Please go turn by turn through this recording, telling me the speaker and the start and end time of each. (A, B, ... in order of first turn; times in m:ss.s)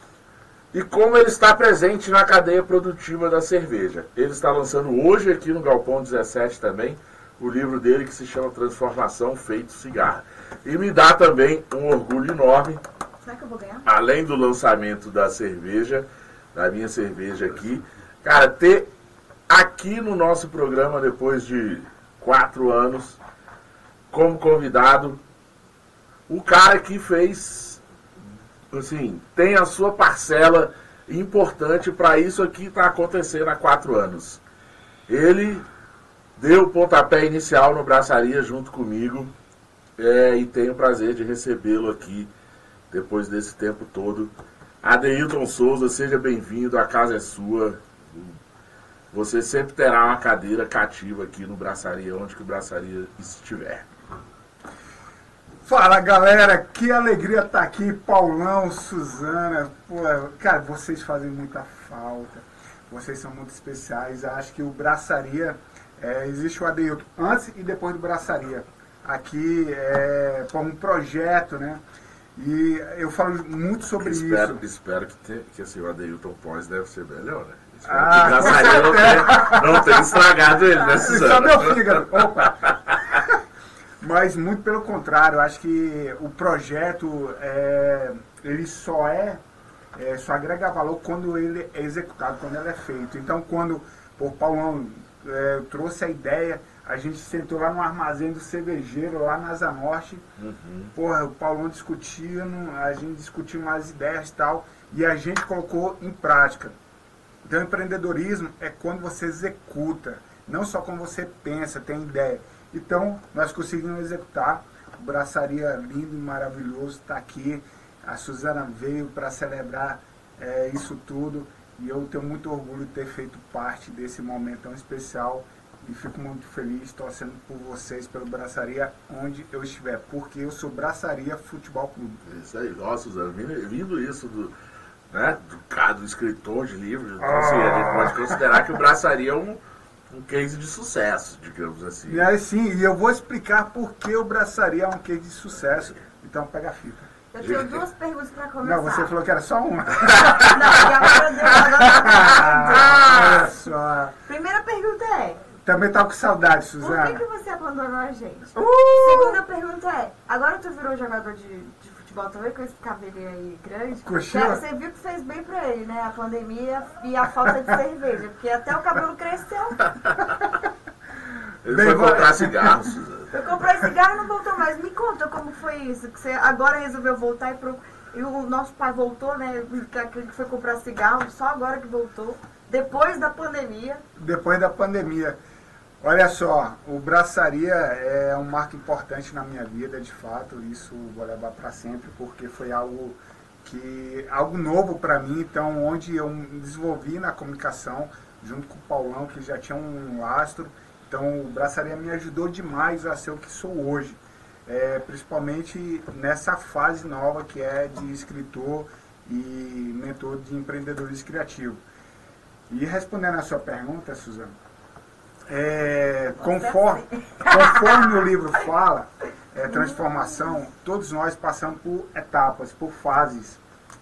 0:00.7-0:12.8 A
0:13.2-0:13.9 B
0:13.8-0:18.9 A
0:19.5-0:23.2 A
0:24.1-0:25.2 A
0:26.3-0:34.4 A
0:35.1-0:35.6 A
0:36.4-0:39.3 A
0:40.0-0:42.3 A
0:42.9-0:48.4 A
0:49.1-0:53.8 A
0:55.6-1:11.8 C
1:12.3-1:14.6 C
1:14.0-1:23.2 A
1:17.8-1:20.2 C
1:20.7-1:23.4 C
1:24.0-1:29.4 C
1:29.9-1:40.2 C
1:40.4-1:40.9 A
1:40.9-1:46.8 C
1:47.4-2:12.2 C
2:12.2-2:14.5 A
2:15.1-2:19.6 A
2:17.2-2:18.6 C
2:20.1-2:22.2 A
2:22.1-2:27.1 C
2:27.3-2:29.1 B
2:27.4-2:27.8 A
2:28.6-2:30.8 C
2:30.4-2:33.2 B
2:31.8-2:34.1 C
2:32.7-2:33.5 A
2:34.2-2:35.4 B
2:35.6-2:37.2 C
2:36.8-2:49.9 B
2:38.6-2:39.4 C
2:44.0-2:44.6 C
2:51.6-2:53.3 A
2:51.7-2:52.9 C
2:53.3-3:04.0 B
3:04.2-3:05.4 C
3:06.0-3:31.8 C
3:32.7-3:34.5 C
3:35.5-3:43.6 C
3:36.4-3:38.3 B
3:39.7-3:40.6 B